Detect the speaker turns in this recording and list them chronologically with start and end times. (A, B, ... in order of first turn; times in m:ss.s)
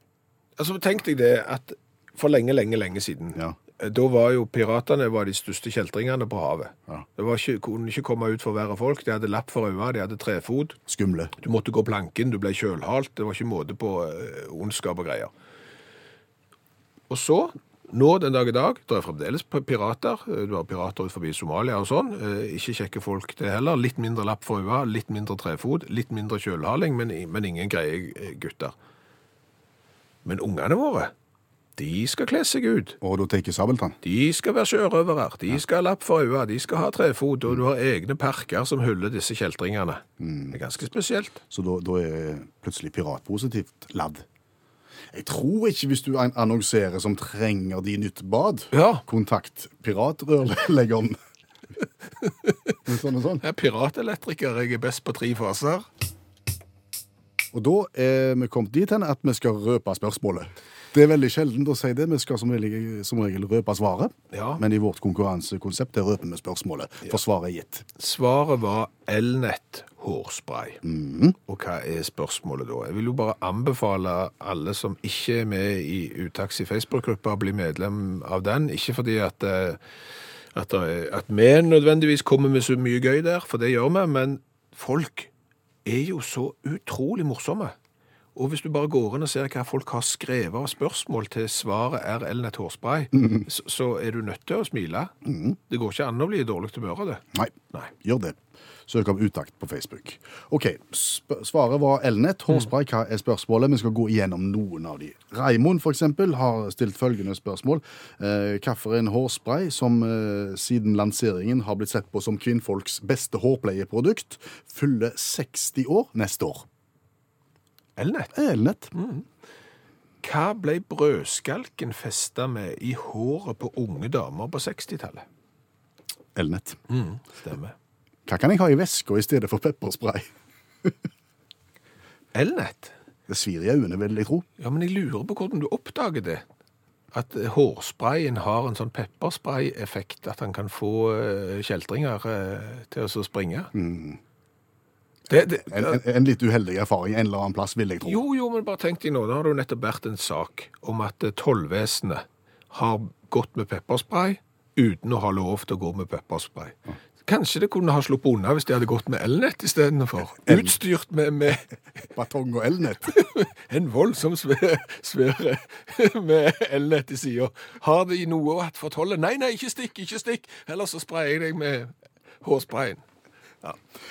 0:00.6-0:10.8 A
0:10.9-0:11.3 B
0:11.4-0:15.3 A
0:17.1-0:28.7 A
0:30.2-0:31.1 A
0:31.8-0:33.0 A
0:33.0-0:34.0 B
0:34.0-0:41.4 A
0:40.2-0:40.6 B
0:41.5-0:44.2 B
0:45.1-0:51.2 B
0:48.7-0:49.0 A
0:52.2-0:52.7 A
0:52.8-0:53.4 B
0:53.4-0:55.9 A
0:57.5-1:07.8 B
1:04.3-1:04.6 A
1:08.0-1:10.8 A
1:10.8-1:11.4 B
1:11.5-1:19.8 A
1:20.5-1:25.3 A
1:25.8-1:27.7 A
1:28.3-1:35.1 A
1:33.2-1:33.4 B
1:35.2-1:35.6 B
1:35.7-1:37.9 A
1:37.3-1:56.6 B
1:58.0-1:58.3 A
1:58.3-1:58.9 B
1:58.9-1:59.2 A
2:00.2-2:05.2 A
2:06.3-2:06.8 B
2:06.9-2:07.7 A
2:08.3-2:10.3 B
2:12.3-2:12.9 A
2:13.3-2:14.4 B
2:14.6-2:16.4 A
2:17.1-2:23.7 A
2:23.7-2:24.2 B
2:25.3-2:26.0 A
2:25.7-2:28.2 B
2:28.0-2:41.7 A
2:40.4-2:40.7 B
2:42.0-2:43.1 B
2:43.1-2:53.0 A